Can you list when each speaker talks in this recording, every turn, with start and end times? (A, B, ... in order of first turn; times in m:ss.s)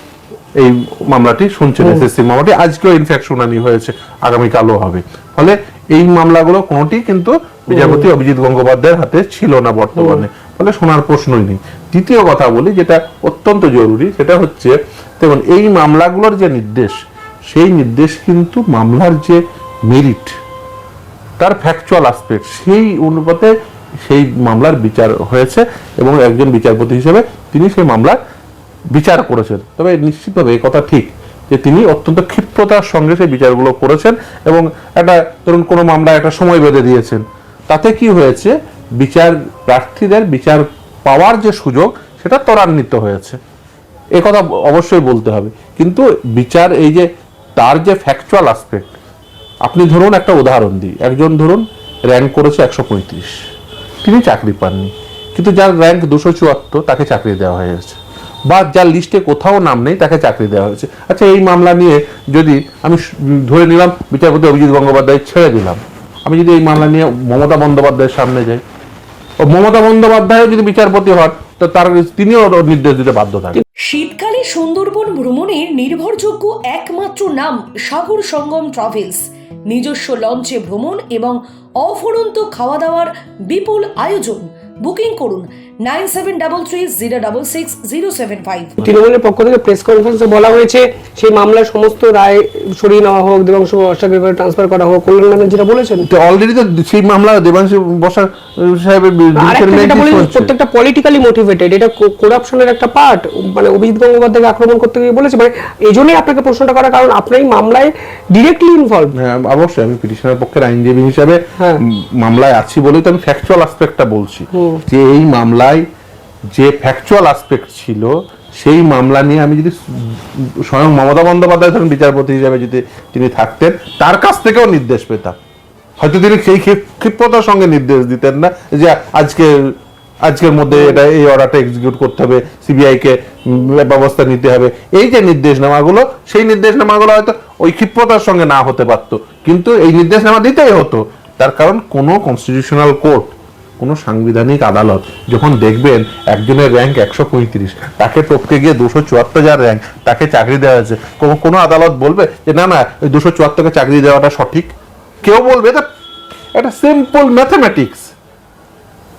0:00.6-0:16.9 A
0:07.7-0:08.1 B
0:10.0-0:10.2 B
0:17.5-0:20.3 A
0:21.4-0:23.5 A
0:24.0-0:28.2 A
0:28.9-0:43.4 A
0:44.2-0:48.9 A
0:49.6-0:53.3 A
0:54.0-1:08.6 A
1:09.4-1:13.6 A
1:13.9-1:28.7 C
1:28.8-1:36.1 B
1:36.1-1:40.5 A
1:39.4-1:49.1 B
1:49.2-1:55.8 A
1:54.5-1:54.8 B
1:56.5-2:05.4 A
2:06.0-2:09.7 A
2:10.2-2:35.8 A
2:10.7-2:11.0 B
2:36.5-2:38.1 A